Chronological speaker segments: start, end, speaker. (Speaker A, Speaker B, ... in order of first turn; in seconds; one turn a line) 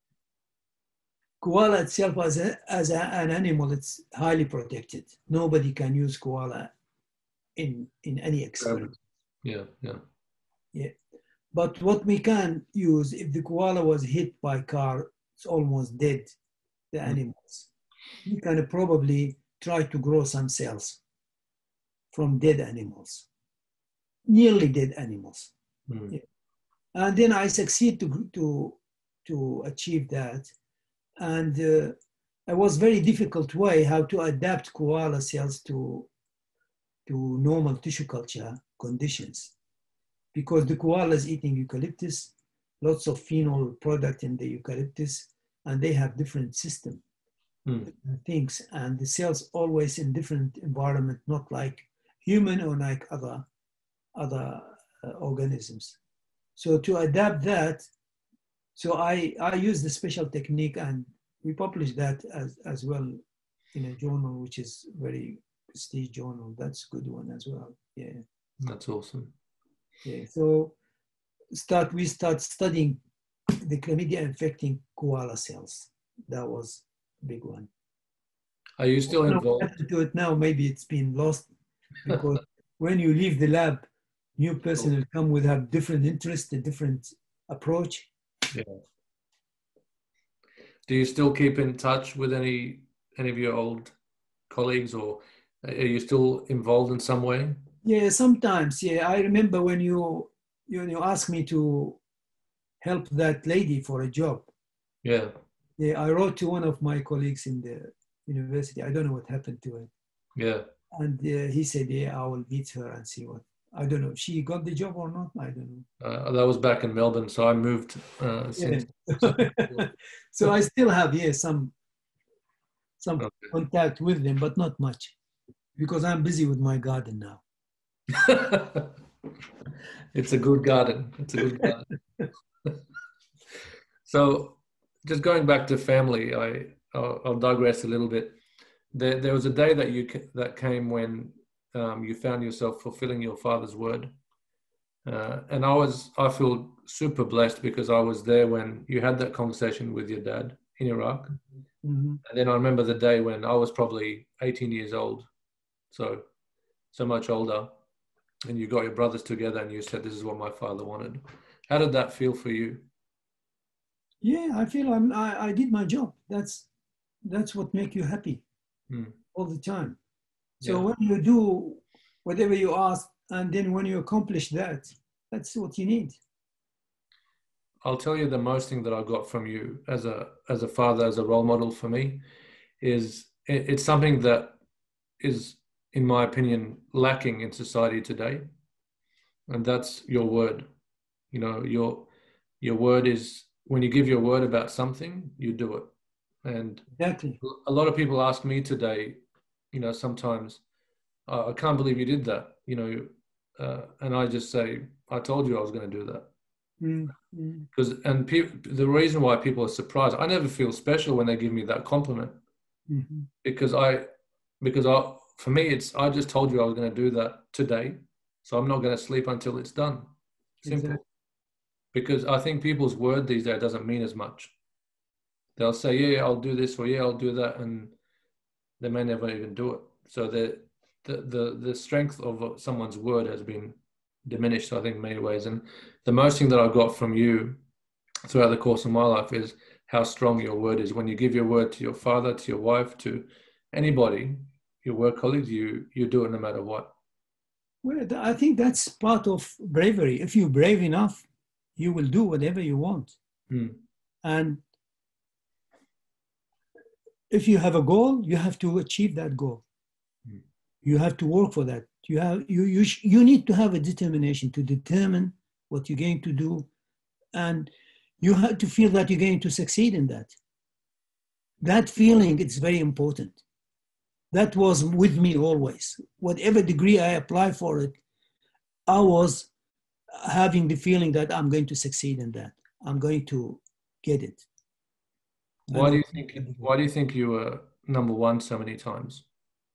Speaker A: 1.4-6.7
Speaker A: 7.5-8.9
Speaker B: 8.6-8.9
Speaker B: 9.4-10.0
Speaker A: 11.5-16.3
Speaker A: 16.9-17.7
Speaker A: 18.2-21.0
Speaker A: 22.1-23.3
Speaker A: 24.3-25.5
Speaker B: 25.9-26.1
Speaker A: 26.9-30.5
Speaker A: 31.2-31.9
Speaker A: 32.5-36.1
Speaker A: 37.1-39.5
Speaker A: 40.3-47.0
Speaker A: 47.9-53.5
Speaker A: 54.1-56.0
Speaker A: 56.5-57.9
Speaker A: 58.8-63.2
Speaker A: 63.7-68.2
Speaker B: 68.6-69.3
Speaker A: 70.0-70.7
Speaker A: 71.5-73.0
Speaker A: 73.6-77.7
Speaker B: 78.8-79.7
Speaker A: 79.1-81.5
Speaker A: 82.0-83.8
Speaker A: 84.4-88.1
Speaker B: 88.5-88.8
Speaker B: 90.9-93.9
Speaker B: 94.5-97.6
Speaker A: 97.8-102.0
Speaker A: 102.8-104.5
Speaker B: 105.0-105.3
Speaker A: 105.8-109.9
Speaker B: 110.3-110.7
Speaker A: 110.9-115.8
Speaker B: 116.0-119.8
Speaker A: 118.6-121.7
Speaker A: 123.0-125.1
Speaker B: 123.2-123.5
Speaker A: 125.8-127.4
Speaker B: 128.1-128.9
Speaker B: 130.1-131.8
Speaker A: 131.4-131.7
Speaker B: 134.1-138.4
Speaker B: 138.9-144.1
Speaker B: 145.0-151.3
Speaker A: 151.8-152.2
Speaker B: 152.2-155.3
Speaker B: 155.9-156.2
Speaker B: 156.9-157.7
Speaker B: 158.4-162.8
Speaker A: 164.2-166.7
Speaker A: 167.2-168.4
Speaker B: 168.9-169.1
Speaker A: 169.3-170.0
Speaker B: 170.6-170.8
Speaker A: 170.6-176.2
Speaker B: 177.8-182.2
Speaker B: 182.8-184.6
Speaker B: 185.2-188.4
Speaker B: 189.5-190.7
Speaker B: 191.3-192.1
Speaker B: 192.6-195.9
Speaker B: 196.4-196.8
Speaker A: 197.0-197.4
Speaker B: 197.4-199.2
Speaker B: 199.7-200.6
Speaker B: 201.3-206.3
Speaker A: 206.8-207.7
Speaker B: 207.7-212.3
Speaker A: 212.9-213.3
Speaker B: 213.4-214.1
Speaker B: 214.6-220.1
Speaker A: 220.6-221.0
Speaker B: 220.6-221.0
Speaker B: 221.9-224.5
Speaker B: 225.6-227.9
Speaker B: 228.8-237.6
Speaker B: 238.2-246.9
Speaker A: 247.8-251.2
Speaker A: 251.8-253.2
Speaker B: 253.5-253.8
Speaker A: 254.2-254.6
Speaker A: 257.3-259.6
Speaker A: 260.8-266.7
Speaker A: 267.3-267.7
Speaker A: 268.2-270.3
Speaker A: 271.6-273.4
Speaker A: 274.3-278.0
Speaker A: 278.9-279.5
Speaker A: 280.2-284.4
Speaker B: 285.7-289.2
Speaker A: 285.7-286.6